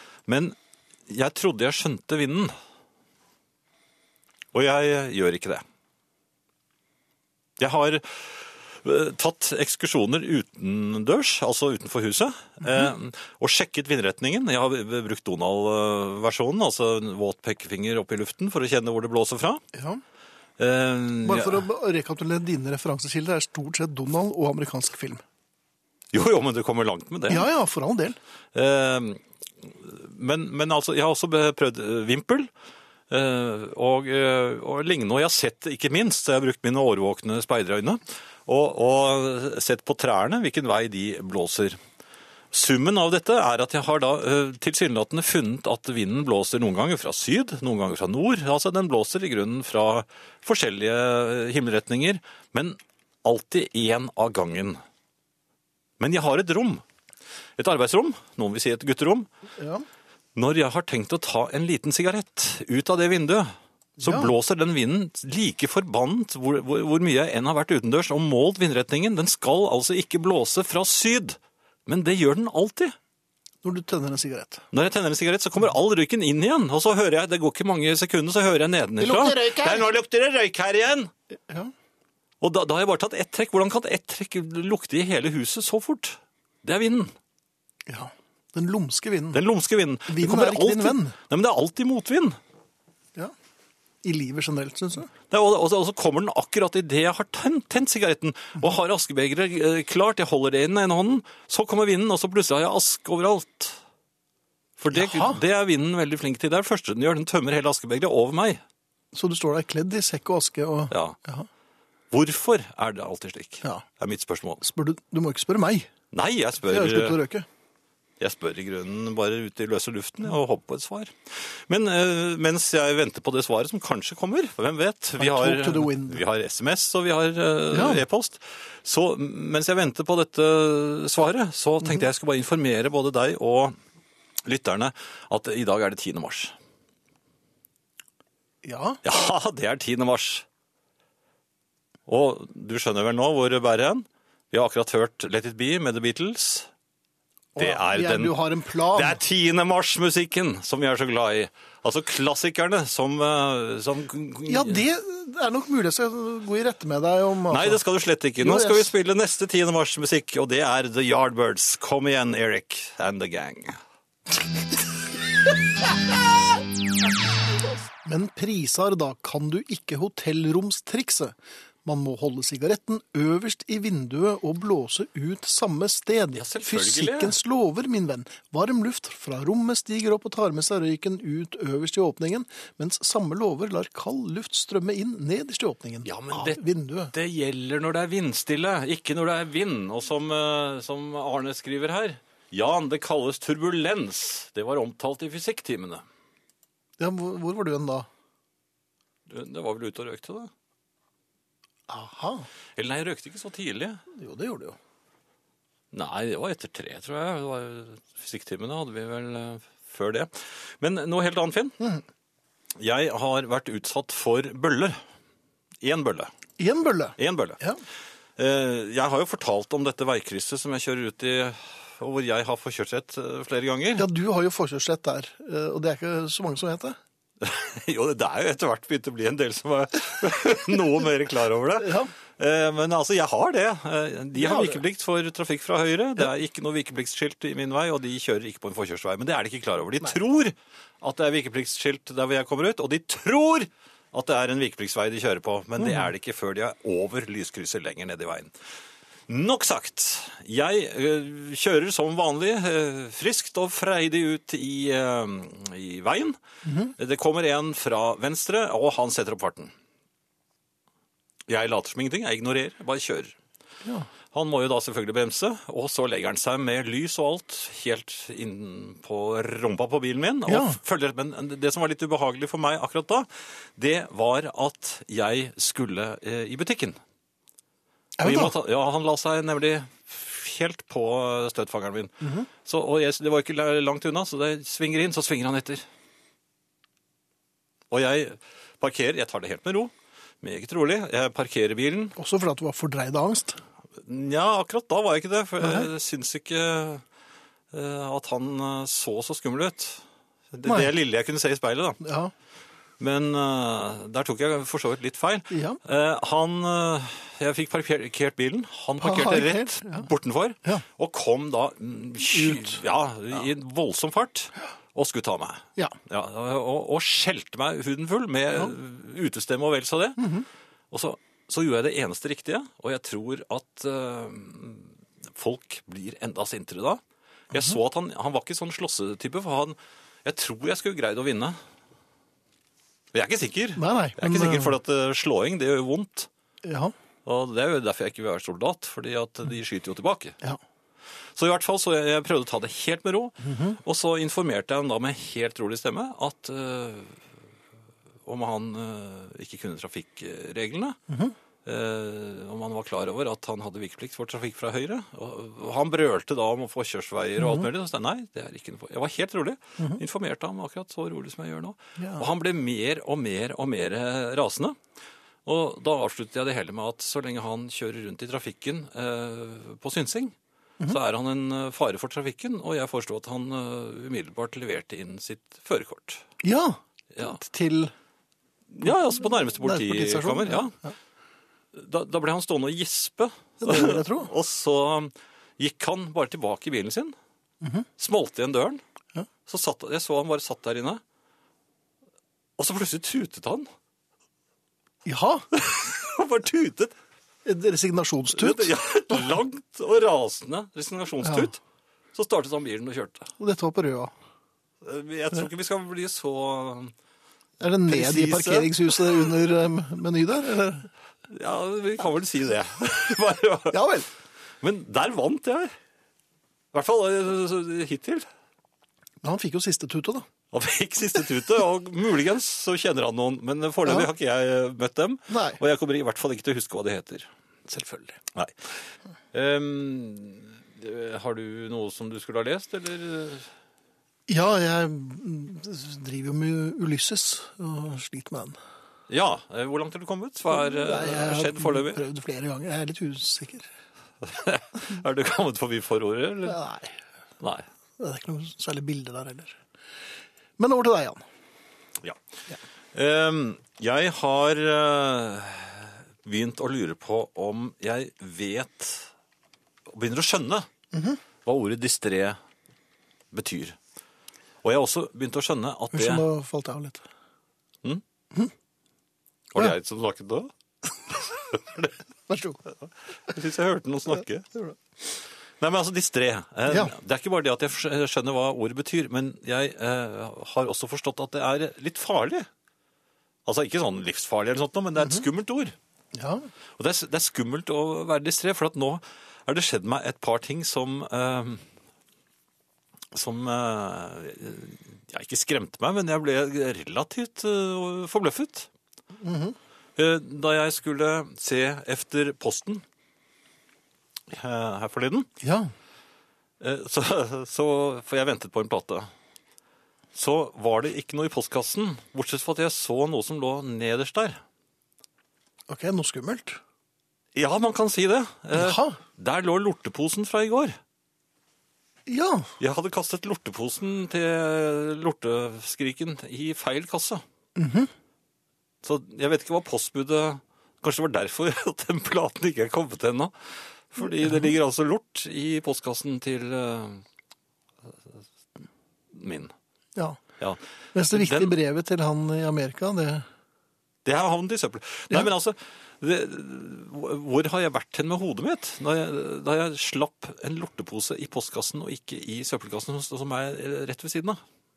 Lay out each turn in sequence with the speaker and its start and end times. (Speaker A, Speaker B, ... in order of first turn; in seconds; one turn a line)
Speaker A: 0.3-0.6
Speaker A: 1.1-2.5
Speaker A: 4.5-5.6
Speaker A: 7.6-19.6
Speaker B: 19.7-20.0
Speaker A: 20.6-21.6
Speaker B: 21.2-25.2
Speaker A: 26.1-27.5
Speaker B: 27.3-28.2
Speaker A: 28.5-32.5
Speaker A: 33.1-41.8
Speaker A: 42.5-54.8
Speaker A: 56.0-56.8
Speaker A: 57.6-59.3
Speaker B: 59.6-59.9
Speaker A: 60.4-73.0
Speaker B: 64.0-64.3
Speaker B: 73.6-74.7
Speaker A: 74.7-81.1
Speaker B: 79.0-79.8
Speaker B: 81.5-81.7
Speaker A: 82.4-87.1
Speaker B: 87.9-89.4
Speaker A: 89.3-92.4
Speaker B: 90.1-91.2
Speaker B: 94.0-95.1
Speaker A: 95.3-103.8
Speaker A: 104.8-108.6
Speaker B: 104.9-105.4
Speaker B: 109.1-111.5
Speaker A: 110.9-111.2
Speaker A: 112.1-114.6
Speaker B: 114.6-115.9
Speaker A: 116.1-117.2
Speaker B: 116.6-117.5
Speaker A: 118.2-133.8
Speaker B: 125.2-126.2
Speaker B: 127.7-128.1
Speaker A: 134.4-136.5
Speaker B: 138.6-139.0
Speaker A: 139.0-140.4
Speaker A: 142.1-146.7
Speaker B: 147.6-149.2
Speaker A: 147.6-148.3
Speaker A: 148.9-154.8
Speaker B: 154.5-157.8
Speaker A: 157.5-163.8
Speaker B: 158.4-158.9
Speaker B: 168.0-187.1
Speaker A: 176.4-177.4
Speaker A: 186.1-186.6
Speaker A: 187.1-196.0
Speaker B: 197.0-198.1
Speaker A: 199.3-200.5
Speaker B: 201.9-202.5
Speaker A: 202.8-204.0
Speaker B: 204.1-204.8
Speaker A: 205.9-211.8
Speaker A: 212.8-215.0
Speaker A: 215.8-216.3
Speaker B: 216.6-217.8
Speaker A: 217.2-217.6
Speaker A: 218.4-224.1
Speaker B: 224.0-227.0
Speaker A: 227.4-248.5
Speaker B: 231.8-232.1
Speaker B: 234.3-234.8
Speaker B: 245.8-246.1
Speaker A: 249.3-256.4
Speaker B: 256.6-256.9
Speaker A: 257.0-259.7
Speaker A: 261.5-263.3
Speaker B: 263.8-264.1
Speaker A: 264.3-277.0
Speaker B: 270.5-270.8
Speaker B: 278.2-278.5
Speaker A: 278.2-285.8
Speaker B: 282.2-282.5
Speaker A: 287.9-292.1
Speaker B: 292.2-293.6
Speaker A: 294.0-297.0
Speaker B: 295.6-295.9
Speaker A: 297.7-302.0
Speaker B: 300.6-300.9
Speaker B: 302.0-302.3
Speaker A: 303.0-320.3
Speaker B: 305.5-305.8
Speaker B: 309.0-310.1
Speaker B: 312.3-312.8
Speaker B: 320.2-320.5
Speaker A: 320.9-327.0
Speaker A: 327.5-331.6
Speaker A: 333.1-336.3
Speaker B: 333.8-334.8
Speaker B: 336.6-336.9
Speaker A: 337.2-340.4
Speaker A: 341.4-347.2
Speaker B: 343.4-343.8
Speaker A: 348.3-351.0
Speaker B: 351.1-351.4
Speaker A: 351.6-364.8
Speaker B: 357.4-357.7
Speaker B: 362.0-362.3
Speaker A: 365.4-370.3
Speaker A: 370.9-376.2
Speaker B: 376.4-377.9
Speaker A: 378.7-380.7
Speaker B: 378.8-380.9
Speaker A: 381.7-387.1
Speaker B: 383.6-384.3
Speaker B: 387.6-387.9
Speaker A: 388.0-388.8
Speaker A: 389.5-391.0
Speaker A: 392.6-393.7
Speaker B: 395.1-395.5
Speaker A: 395.5-396.9
Speaker B: 397.4-399.3
Speaker A: 398.4-401.6
Speaker B: 401.2-401.5
Speaker A: 402.1-403.3
Speaker B: 403.4-404.1
Speaker A: 404.8-406.9
Speaker B: 407.6-410.9
Speaker A: 407.9-409.3
Speaker A: 411.3-413.8
Speaker B: 413.7-414.1
Speaker A: 414.6-415.7
Speaker A: 416.7-418.3
Speaker B: 419.2-420.3
Speaker A: 420.5-427.3
Speaker B: 425.3-425.6
Speaker B: 427.7-428.2
Speaker A: 429.3-433.5
Speaker B: 434.3-438.6
Speaker A: 439.1-442.0
Speaker B: 440.5-443.7
Speaker A: 444.2-446.6
Speaker B: 446.4-447.0
Speaker B: 448.0-449.6
Speaker B: 450.6-451.2
Speaker A: 452.9-459.1
Speaker A: 459.9-460.7
Speaker B: 460.9-461.2
Speaker A: 461.4-462.4
Speaker A: 463.3-463.8
Speaker A: 464.6-466.3
Speaker B: 465.9-467.1
Speaker A: 469.5-470.5
Speaker A: 471.1-472.0
Speaker B: 472.3-472.6
Speaker A: 473.3-474.5
Speaker A: 475.6-482.5
Speaker B: 476.7-476.9
Speaker A: 483.5-485.8
Speaker B: 486.1-486.5
Speaker A: 486.8-491.6
Speaker A: 493.1-498.7
Speaker B: 499.2-499.6
Speaker A: 500.0-502.8
Speaker A: 504.3-505.3
Speaker B: 505.4-505.7
Speaker A: 506.6-509.1
Speaker A: 510.1-514.4
Speaker B: 515.7-516.6
Speaker A: 517.4-520.8
Speaker B: 518.5-519.0
Speaker B: 522.1-522.5
Speaker A: 522.6-527.2
Speaker B: 527.6-527.9
Speaker A: 528.8-537.0
Speaker A: 539.1-539.5
Speaker B: 540.0-540.2
Speaker A: 540.4-541.5
Speaker B: 540.9-543.3
Speaker A: 544.0-554.4